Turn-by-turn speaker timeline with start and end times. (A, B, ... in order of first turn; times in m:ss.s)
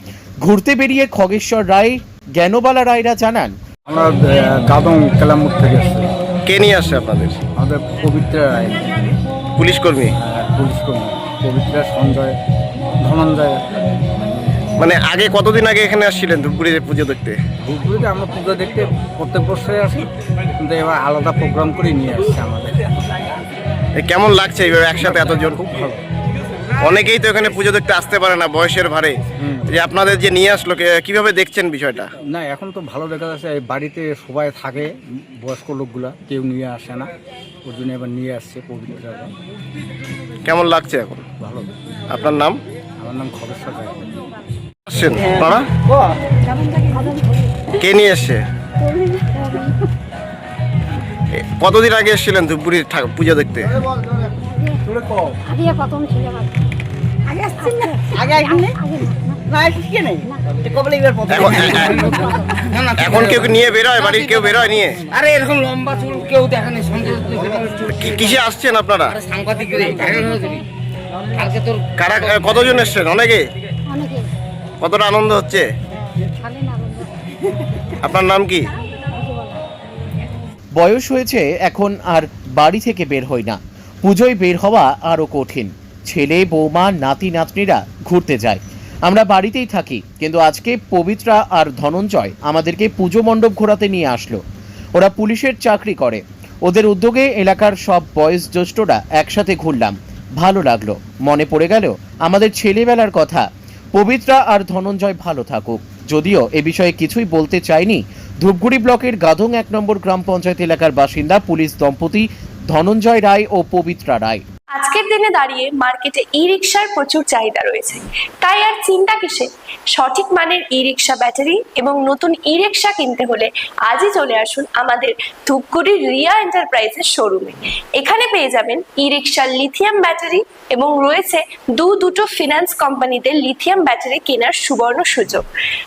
0:00.4-0:03.5 A
0:03.9-0:06.1 B
0:06.4-0:07.4 C
0:07.5-0:09.1 B
0:09.6-0:10.1 C
0:10.2-0:12.4 B
0:13.0-0:13.7 B
0:14.8-0:17.4 C
0:17.6-0:22.9 B
0:24.0-0:25.6 C
0:25.1-0:26.0 B
0:26.8-0:32.1 C
0:29.4-0:29.7 B
0:32.2-0:37.1 B
0:37.6-0:39.3 B
0:40.4-0:41.2 C
0:41.4-0:41.7 B
0:42.1-0:42.6 C
0:43.0-0:44.1 B
0:44.9-0:45.7 C
0:47.7-0:48.4 C
0:49.2-0:49.7 D
0:51.4-0:53.8 C
0:54.4-0:54.8 D
0:55.4-0:56.6 D
0:57.6-0:59.4 D
0:58.2-0:58.7 E
0:59.5-1:01.4 E
1:01.3-1:02.2 C
1:02.9-1:05.1 C
1:05.3-1:07.8 E
1:07.8-1:09.3 C
1:09.5-1:09.9 E
1:10.0-1:10.6 D
1:11.9-1:13.4 C
1:13.9-1:14.3 D
1:14.8-1:15.7 C
1:16.4-1:17.1 D
1:18.0-1:18.7 C
1:19.2-1:19.6 D
1:20.8-1:34.4 A
1:34.9-1:54.4 A
1:54.7-2:15.4 F